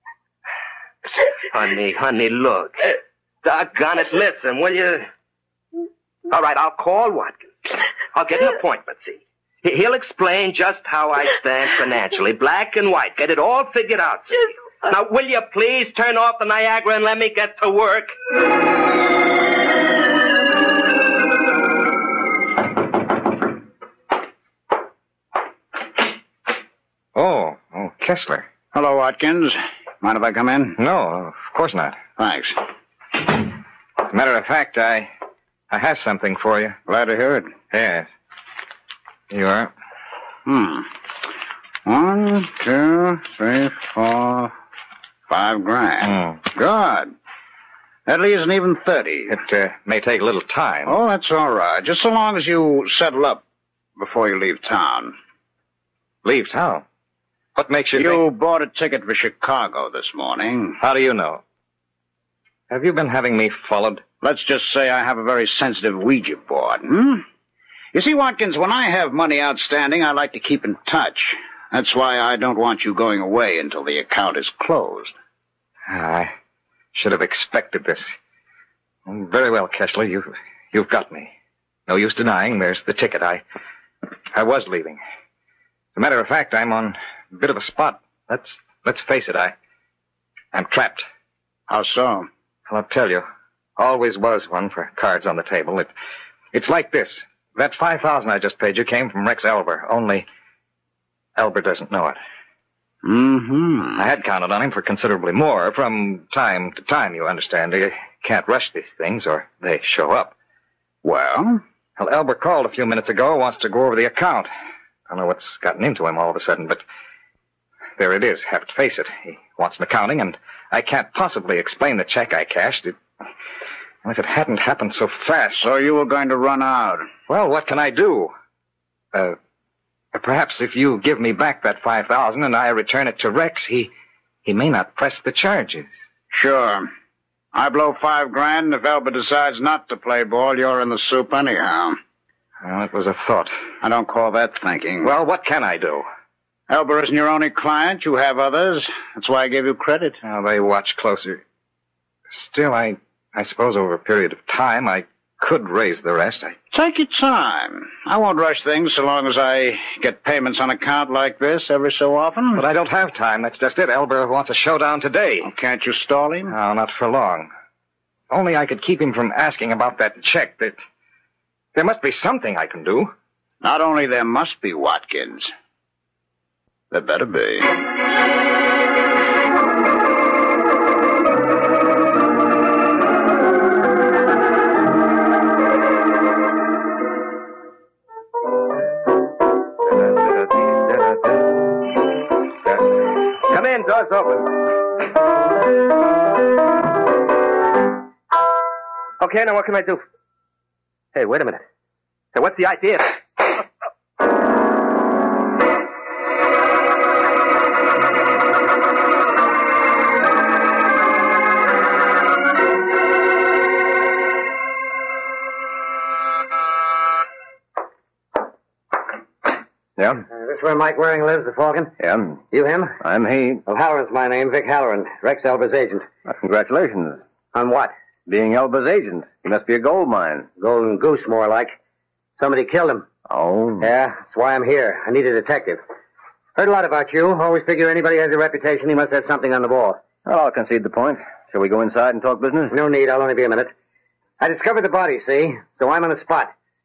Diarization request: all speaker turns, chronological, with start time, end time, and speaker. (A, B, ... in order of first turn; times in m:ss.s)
0:01.5-0:05.1 A
0:06.3-0:18.1 A
0:27.1-0:28.4 B
0:28.7-0:30.8 C
0:30.8-0:32.0 B
0:32.2-0:32.6 C
0:34.1-0:35.1 B
0:35.7-0:36.8 B
0:36.9-0:37.6 C
0:37.7-0:38.1 B
0:39.3-0:39.7 B
0:40.4-0:40.9 C
0:41.8-0:44.5 C
0:45.3-0:47.1 C
0:46.1-0:46.4 B
0:48.0-0:49.4 C
0:49.3-0:51.0 B
0:50.8-0:53.4 C
0:54.0-0:55.2 C
0:56.2-0:56.8 B
0:57.6-0:58.2 B
0:57.9-1:00.8 C
1:00.8-1:01.4 B
1:02.7-1:04.0 B
1:04.2-1:07.2 C
1:07.9-1:15.1 C
1:15.9-1:16.3 B
1:16.9-1:18.1 B
1:19.0-1:21.3 B
1:21.9-1:23.4 B
1:24.3-1:25.0 B
1:25.9-1:29.5 B
1:30.5-1:31.0 B
1:31.7-1:32.3 C
1:32.7-1:33.2 B
1:33.8-1:35.9 B
1:36.5-1:40.2 B
1:41.4-1:42.2 B
1:43.0-1:44.0 C
1:44.0-1:50.3 B
1:51.0-1:51.6 C
1:52.0-1:54.5 B
1:55.1-1:56.8 B
1:58.0-2:03.0 B
2:04.0-2:05.6 B
2:05.5-2:07.1 C
2:07.3-2:08.3 B
2:10.1-2:13.9 B
2:14.4-2:15.9 B
2:16.3-2:16.9 C
2:17.5-2:22.0 C
2:22.6-2:23.6 B
2:23.8-2:25.1 C
2:25.0-2:26.1 B
2:26.7-2:30.2 C
2:30.2-2:31.4 B
2:32.3-2:36.6 B
2:36.7-2:42.6 C
2:42.5-2:45.5 B
2:45.4-2:46.5 C
2:46.5-2:47.5 B
2:48.3-2:50.8 B
2:51.7-2:53.1 B
2:53.6-2:55.5 C
2:56.9-2:57.8 C
3:09.8-3:11.8 A
3:12.6-3:14.5 A
3:19.2-3:20.0 A
3:21.1-3:21.6 A
3:22.3-3:23.4 A
3:40.0-3:40.2 D
3:40.3-3:41.9 E
3:42.0-3:42.4 D
3:42.5-3:43.0 E
3:43.0-3:43.6 D
3:43.6-3:46.0 E
3:46.2-3:47.2 D
3:47.5-3:47.9 E
3:48.3-3:50.5 D
3:50.6-3:51.7 E
3:52.4-3:53.0 E
3:53.3-3:53.9 D
3:53.8-3:55.8 E
3:56.6-4:00.0 E
4:00.2-4:02.8 D
4:02.7-4:03.7 E
4:04.4-4:06.5 E